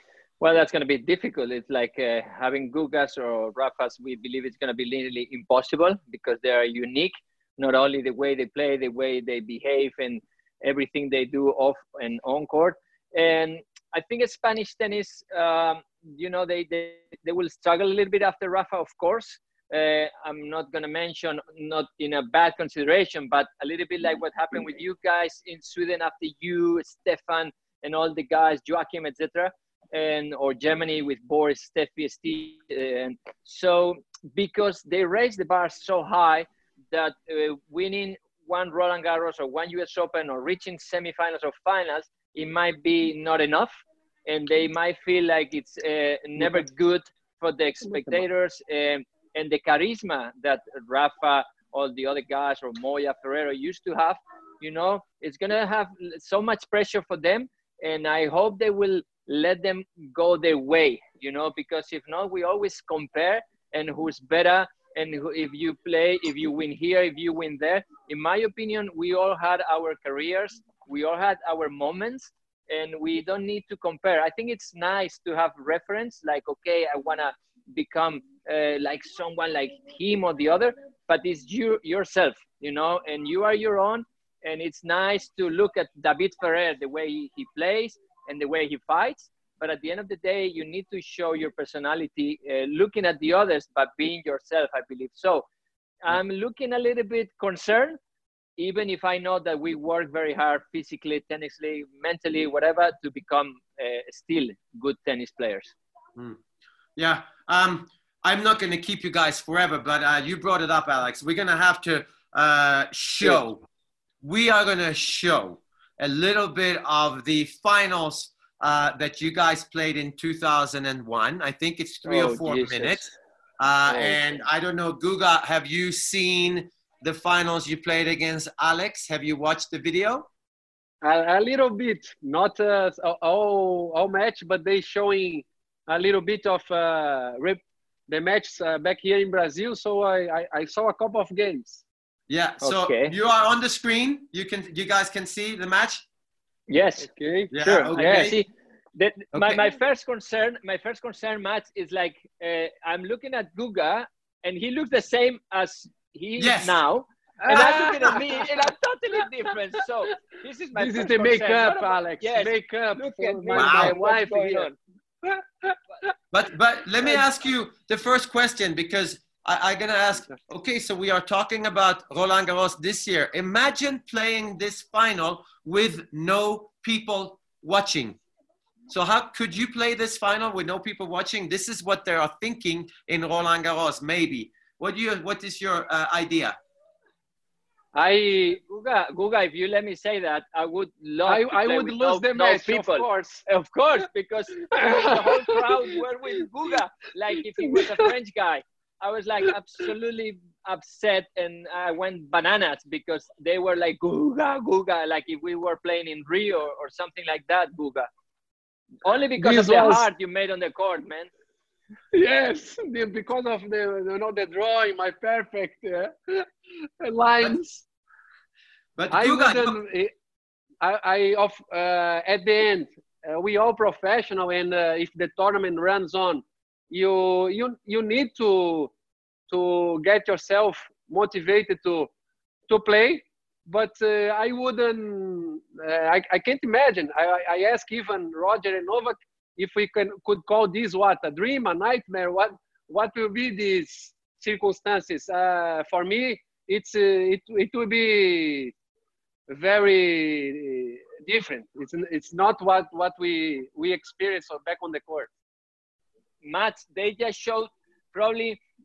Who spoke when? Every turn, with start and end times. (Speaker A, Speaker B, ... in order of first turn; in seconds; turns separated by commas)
Speaker A: 0.4-95.5, Speaker B: 46.4-46.6, Speaker B: 47.8-48.2, Speaker A: 96.0-98.0, Speaker A: 98.6-105.7, Speaker C: 107.0-113.6, Speaker C: 114.2-130.3, Speaker A: 122.0-123.1, Speaker B: 131.0-141.8, Speaker C: 142.3-146.0, Speaker A: 142.6-143.1, Speaker A: 146.7-164.8, Speaker B: 147.0-148.4, Speaker C: 147.5-148.4, Speaker C: 149.3-149.6, Speaker C: 156.4-156.8, Speaker B: 157.4-158.6, Speaker B: 160.7-164.7, Speaker C: 163.5-163.9, Speaker B: 165.2-165.8, Speaker C: 166.3-178.2, Speaker C: 178.9-186.6, Speaker B: 187.9-188.5, Speaker A: 188.4-208.1, Speaker B: 191.3-193.4, Speaker B: 194.7-195.8, Speaker B: 197.6-198.0, Speaker A: 209.0-211.3, Speaker B: 209.4-210.1, Speaker B: 212.1-216.5, Speaker B: 217.0-217.8, Speaker C: 218.9-219.8, Speaker B: 219.1-220.1, Speaker B: 220.8-228.9, Speaker B: 229.5-232.1, Speaker B: 232.7-248.7, Speaker B: 249.5-255.3, Speaker A: 256.4-258.6